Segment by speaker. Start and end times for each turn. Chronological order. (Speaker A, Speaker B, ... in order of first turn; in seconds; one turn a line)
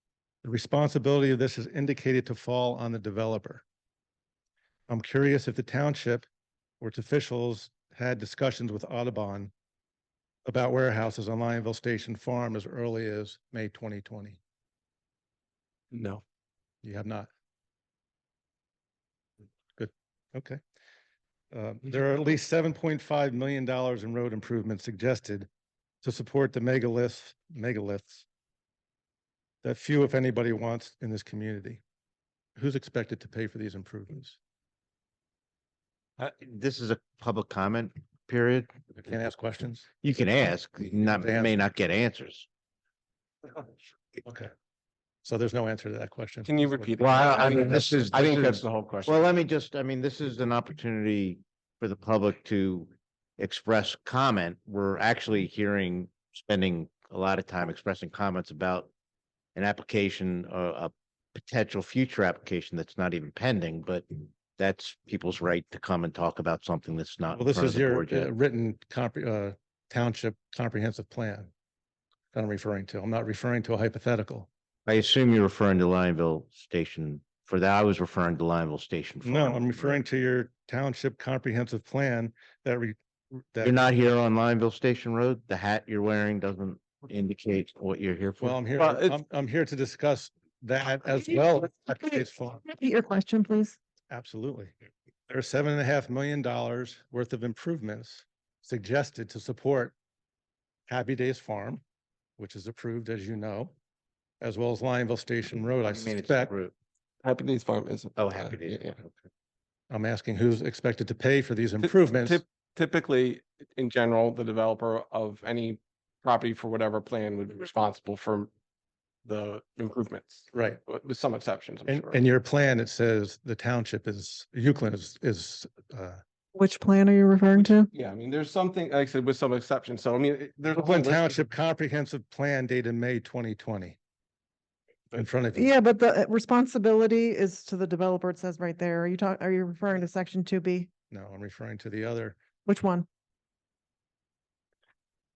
Speaker A: 0.4-3.6
Speaker A: 4.9-6.2
Speaker A: 6.8-9.5
Speaker A: 10.4-14.4
Speaker B: 15.9-16.2
Speaker A: 16.8-17.3
Speaker A: 19.8-20.6
Speaker A: 21.5-25.5
Speaker A: 26.0-28.2
Speaker A: 29.6-31.8
Speaker A: 32.5-34.4
Speaker C: 36.2-38.8
Speaker A: 39.0-39.9
Speaker C: 40.0-42.5
Speaker A: 41.1-41.6
Speaker A: 44.2-44.5
Speaker A: 45.2-47.0
Speaker B: 46.5-49.2
Speaker C: 47.0-58.9
Speaker C: 59.5-68.3
Speaker A: 67.3-71.5
Speaker A: 72.3-74.5
Speaker C: 74.8-80.0
Speaker A: 79.2-83.8
Speaker C: 83.6-88.6
Speaker A: 88.4-92.6
Speaker B: 88.8-89.2
Speaker D: 92.0-93.8
Speaker A: 94.1-94.7
Speaker A: 95.3-99.9
Speaker A: 100.9-101.8
Speaker A: 102.4-103.7
Speaker A: 104.4-106.5
Speaker C: 105.9-106.7
Speaker B: 107.2-109.0
Speaker C: 108.2-109.1
Speaker A: 109.9-112.4
Speaker B: 111.8-118.5
Speaker B: 119.2-122.2
Speaker A: 120.5-120.8
Speaker A: 121.9-126.2
Speaker D: 126.5-127.9
Speaker B: 127.6-131.5
Speaker A: 130.7-134.0
Speaker A: 135.1-135.7
Speaker D: 135.5-140.9
Speaker A: 141.1-142.4
Speaker D: 142.7-143.1